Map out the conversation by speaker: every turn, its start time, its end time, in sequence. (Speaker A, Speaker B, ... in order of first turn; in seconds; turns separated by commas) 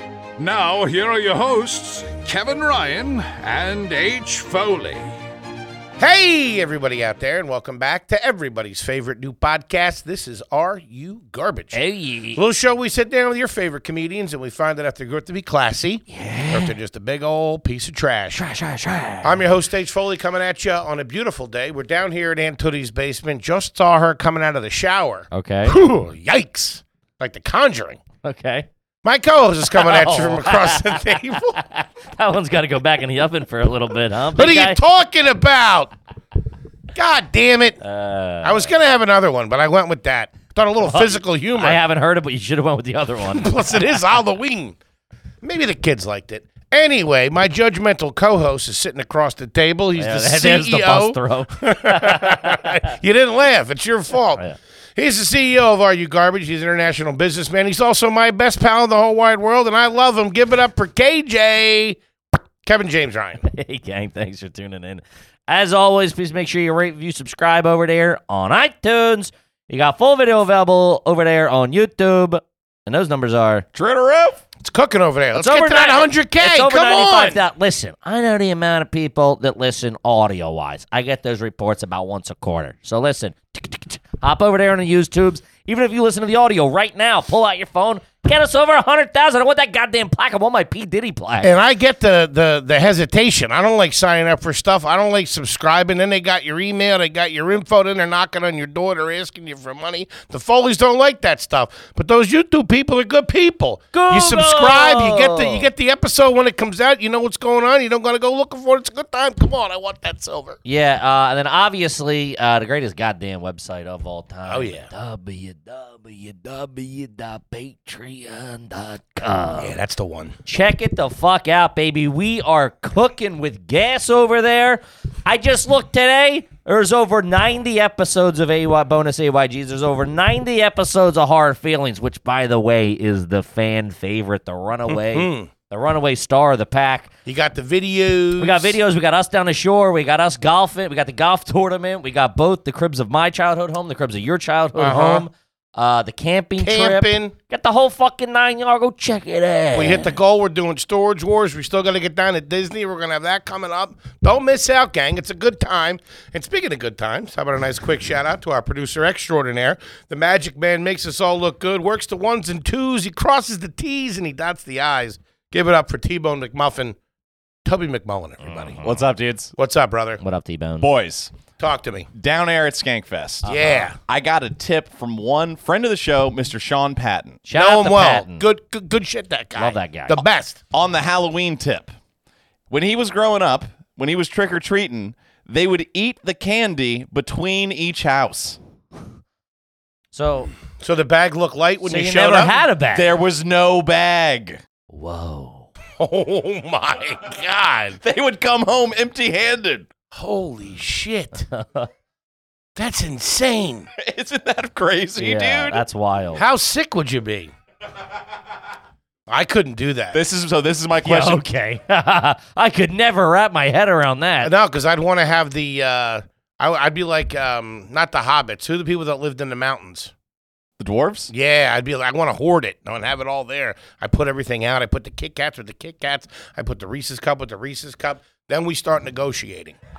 Speaker A: 0.4-5.1, Speaker B: 6.0-11.8, Speaker C: 11.7-12.4, Speaker B: 12.3-18.4, Speaker C: 16.1-16.7, Speaker C: 18.3-19.4, Speaker B: 19.2-28.0, Speaker C: 25.3-25.8, Speaker C: 28.2-28.7, Speaker B: 29.0-31.6, Speaker C: 29.7-34.8, Speaker B: 34.4-35.9, Speaker B: 36.9-37.8, Speaker C: 37.8-38.7, Speaker B: 38.4-41.8, Speaker C: 40.8-43.5, Speaker B: 43.3-44.8, Speaker B: 45.4-54.4, Speaker C: 50.0-52.8, Speaker B: 55.0-62.0, Speaker B: 62.6-63.4, Speaker C: 63.4-73.7, Speaker D: 73.7-74.4, Speaker B: 74.6-77.4, Speaker C: 75.3-91.5, Speaker B: 91.4-110.6, Speaker C: 103.9-105.7, Speaker C: 110.6-119.7, Speaker B: 114.5-114.9, Speaker B: 119.6-120.3, Speaker C: 120.5-137.1, Speaker B: 134.9-135.5, Speaker B: 137.2-138.8, Speaker C: 138.4-150.1, Speaker B: 144.8-145.2, Speaker B: 146.6-147.3, Speaker B: 149.7-167.0, Speaker B: 167.6-168.8, Speaker C: 168.4-169.0, Speaker D: 168.8-169.5, Speaker B: 169.6-170.2, Speaker C: 170.2-170.9, Speaker D: 170.8-171.3, Speaker B: 171.6-172.1, Speaker D: 172.1-173.5, Speaker C: 173.4-173.9, Speaker B: 173.4-174.0, Speaker D: 174.0-177.4, Speaker C: 177.5-178.4, Speaker B: 177.5-180.6, Speaker C: 179.6-180.2, Speaker D: 180.7-181.9, Speaker D: 182.7-188.6, Speaker C: 190.1-190.5, Speaker B: 190.8-192.6, Speaker C: 191.8-193.1, Speaker D: 192.9-194.6, Speaker C: 194.9-195.7, Speaker B: 196.0-198.0, Speaker D: 198.0-199.9, Speaker B: 200.1-201.5, Speaker C: 201.5-201.9, Speaker B: 202.8-203.9, Speaker D: 204.0-205.8, Speaker C: 205.2-206.4, Speaker B: 206.3-207.5, Speaker B: 209.3-210.2, Speaker D: 210.1-211.4, Speaker C: 211.0-214.5, Speaker B: 214.4-220.1, Speaker D: 220.8-221.3, Speaker B: 221.3-229.7